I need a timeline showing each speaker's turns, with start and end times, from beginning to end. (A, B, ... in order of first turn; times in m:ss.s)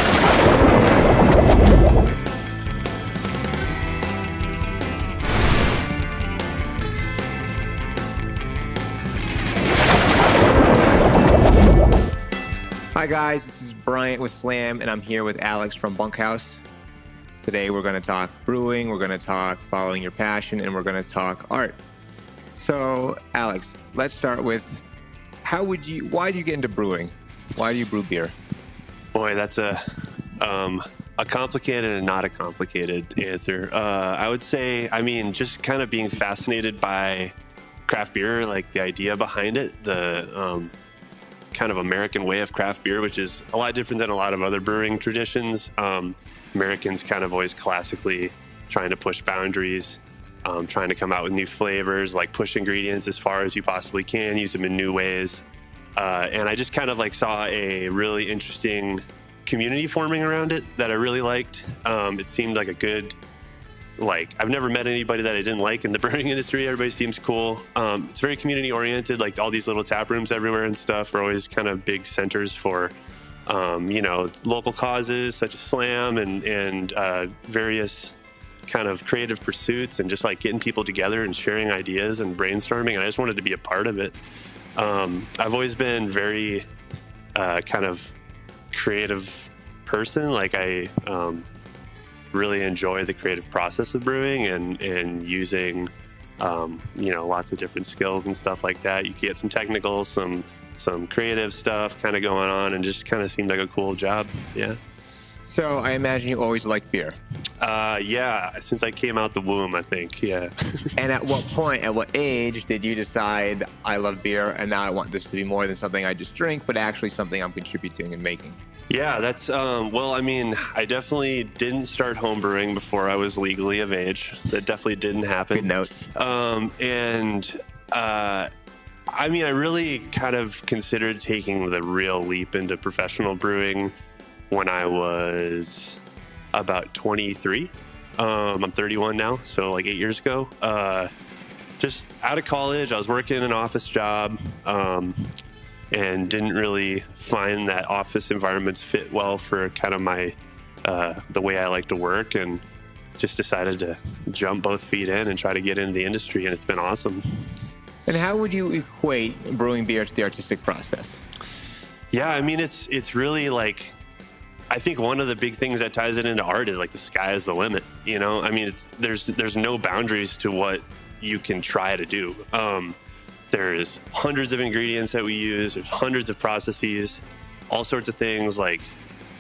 0:12.9-0:16.6 A
0:17.4-0:21.8 A
0:22.6-0:24.8 A
0:25.4-0:28.3 A
0:29.1-0:37.3 B
0:37.8-0:40.7 B
0:41.5-0:55.4 B
0:56.0-1:03.2 B
1:04.0-1:12.9 B
1:13.5-1:24.2 B
1:24.8-1:26.7 B
1:27.3-1:28.2 B
1:28.7-1:31.5 B
1:32.3-1:44.8 B
1:45.5-1:47.2 A
1:47.6-1:51.1 B
1:51.0-1:58.6 A
1:58.9-2:08.5 B
2:05.5-2:05.9 A
2:09.1-2:13.9 B
2:14.5-2:16.0 B
2:16.5-2:21.1 B
2:21.8-2:25.3 B
2:25.9-2:32.6 B
2:33.2-2:37.5 B
2:38.1-2:41.2 A
2:42.1-2:44.0 B
2:44.7-2:53.0 B
2:53.5-2:58.9 B